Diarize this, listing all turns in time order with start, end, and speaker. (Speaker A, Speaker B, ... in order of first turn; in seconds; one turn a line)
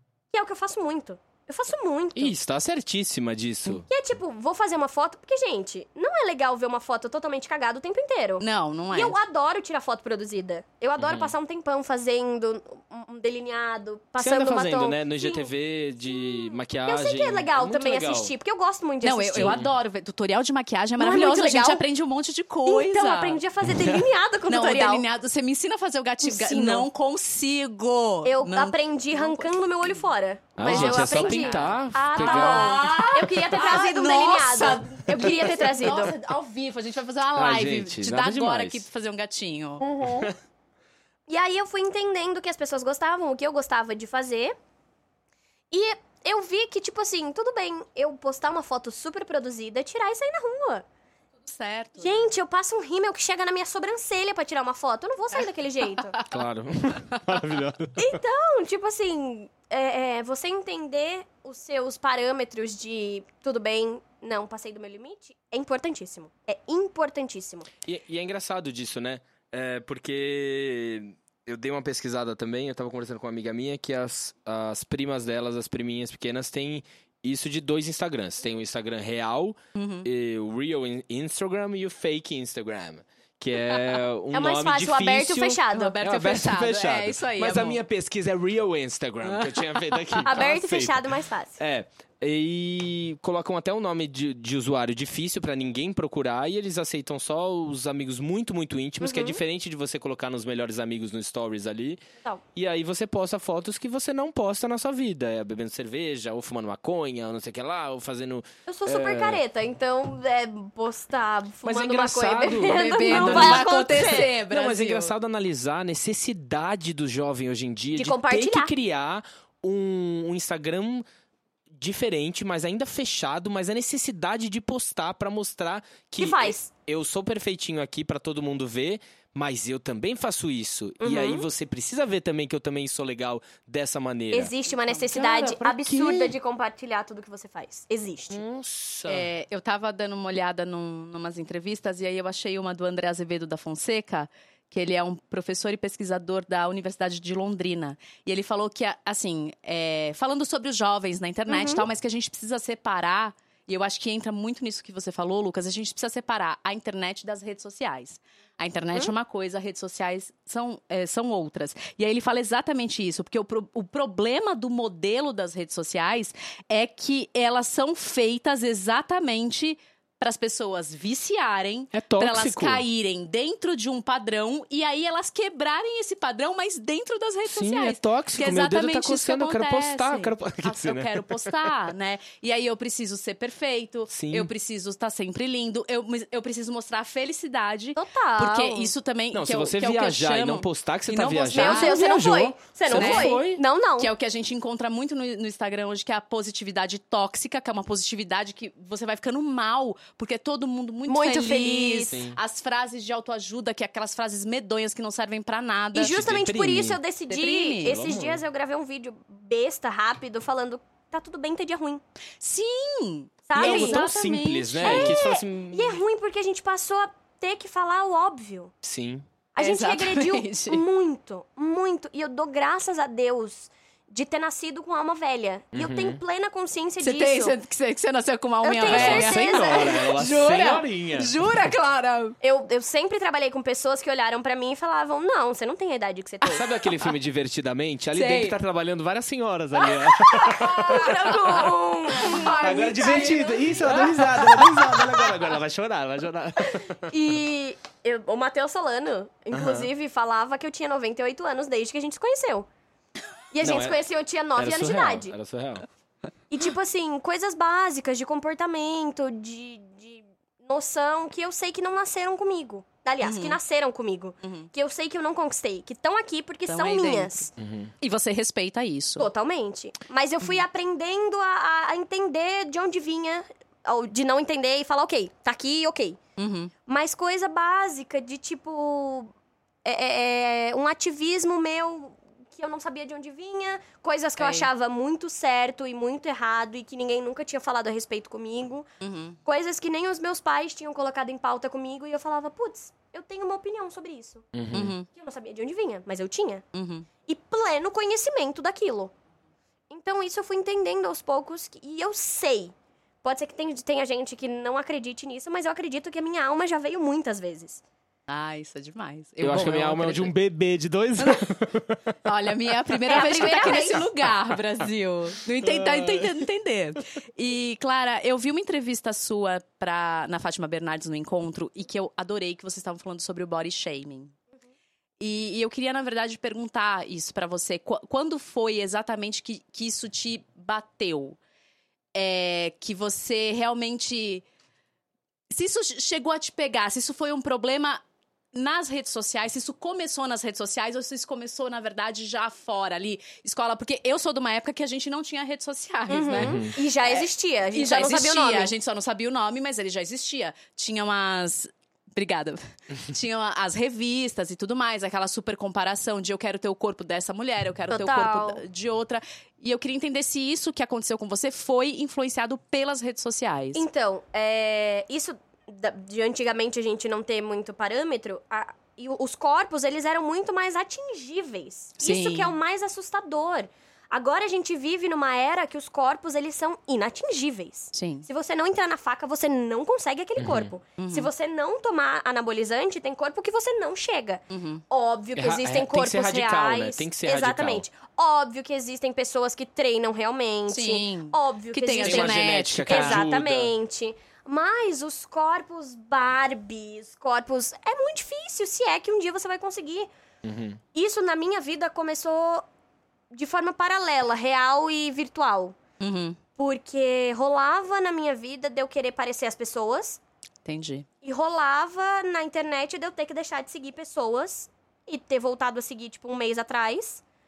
Speaker A: 0.3-2.3
Speaker B: 2.1-3.9
Speaker A: 3.9-15.5
Speaker C: 8.4-9.2
Speaker B: 11.0-11.3
Speaker B: 14.2-18.3
Speaker A: 16.1-19.6
Speaker C: 19.0-23.4
Speaker B: 19.4-19.7
Speaker A: 21.0-21.8
Speaker A: 22.6-25.0
Speaker B: 23.6-24.0
Speaker C: 24.5-29.9
Speaker A: 26.2-26.9
Speaker A: 28.2-36.1
Speaker B: 30.6-32.9
Speaker C: 30.6-40.0
Speaker B: 37.4-38.8
Speaker A: 39.9-40.2
Speaker B: 40.0-40.3
Speaker A: 41.3-44.5
Speaker A: 45.7-50.8
Speaker C: 51.5-52.2
Speaker A: 52.0-56.2
Speaker C: 56.0-56.3
Speaker B: 56.3-58.2
Speaker A: 58.0-67.7
Speaker B: 67.8-91.1
Speaker C: 79.8-80.1
Speaker A: 84.3-86.0
Speaker C: 85.7-87.8
Speaker C: 89.2-90.3
Speaker A: 90.2-91.6
Speaker B: 91.6-102.0
Speaker A: 99.0-99.4
Speaker B: 102.5-109.4
Speaker A: 108.7-114.3
Speaker B: 111.6-121.0
Speaker C: 112.6-115.1
Speaker A: 118.0-118.7
Speaker B: 121.7-134.5
Speaker A: 126.2-126.7
Speaker A: 131.0-131.5
Speaker A: 134.3-138.4
Speaker B: 135.1-136.3
Speaker B: 138.3-139.3
Speaker C: 139.1-192.0
Speaker A: 151.5-151.8
Speaker B: 171.9-172.8
Speaker B: 177.4-181.6
Speaker B: 184.1-184.5
Speaker A: 187.9-188.9
Speaker B: 189.3-193.6
Speaker A: 191.5-194.1
Speaker C: 192.9-193.4
Speaker C: 194.0-206.2
Speaker A: 201.1-202.2
Speaker B: 202.1-202.4
Speaker A: 205.9-212.0
Speaker B: 206.0-207.0
Speaker C: 207.3-208.0
Speaker B: 207.8-208.4
Speaker C: 212.4-215.2
Speaker A: 213.5-214.0
Speaker B: 213.6-216.0
Speaker A: 214.8-218.7
Speaker B: 218.8-219.3
Speaker A: 219.5-227.6
Speaker C: 219.6-220.8
Speaker B: 225.7-226.2
Speaker C: 227.0-232.3
Speaker A: 228.6-230.1
Speaker B: 228.8-231.5
Speaker A: 232.4-236.7
Speaker B: 236.4-241.6
Speaker C: 238.1-238.6
Speaker A: 240.1-244.1
Speaker C: 242.1-244.7
Speaker B: 242.3-247.1
Speaker A: 247.1-252.7
Speaker B: 249.5-249.9
Speaker A: 253.5-255.3
Speaker B: 253.6-254.0
Speaker B: 254.6-255.8
Speaker A: 256.5-267.5
Speaker C: 263.2-263.6
Speaker C: 264.4-264.7
Speaker C: 266.7-267.5
Speaker B: 267.6-267.9
Speaker C: 268.0-269.3
Speaker A: 269.2-276.2
Speaker C: 276.4-276.7
Speaker A: 276.9-279.3
Speaker A: 279.8-288.9
Speaker C: 284.4-284.7
Speaker C: 289.0-289.4
Speaker A: 289.4-294.5
Speaker B: 294.5-294.9
Speaker C: 294.7-295.1
Speaker A: 295.1-296.6
Speaker C: 296.7-297.1
Speaker A: 297.3-299.1
Speaker A: 299.9-307.8
Speaker C: 308.3-310.3
Speaker B: 309.4-312.0
Speaker C: 311.2-311.5
Speaker C: 312.2-324.4
Speaker A: 313.1-314.1
Speaker B: 315.6-316.4
Speaker C: 325.2-331.4
Speaker C: 332.1-334.4
Speaker C: 335.5-338.0
Speaker C: 338.5-363.9
Speaker A: 346.1-348.7
Speaker B: 346.3-346.7
Speaker A: 357.9-358.6
Speaker A: 363.7-400.1
Speaker C: 372.0-372.6
Speaker C: 377.9-378.3
Speaker B: 380.4-380.7
Speaker C: 381.0-381.3
Speaker C: 384.5-384.8
Speaker B: 385.4-387.8
Speaker C: 390.7-393.2
Speaker B: 392.0-393.7
Speaker B: 400.4-400.8
Speaker A: 400.9-402.6
Speaker A: 403.3-405.8
Speaker C: 406.0-406.4
Speaker A: 406.6-410.2
Speaker C: 410.6-411.1
Speaker A: 411.2-417.2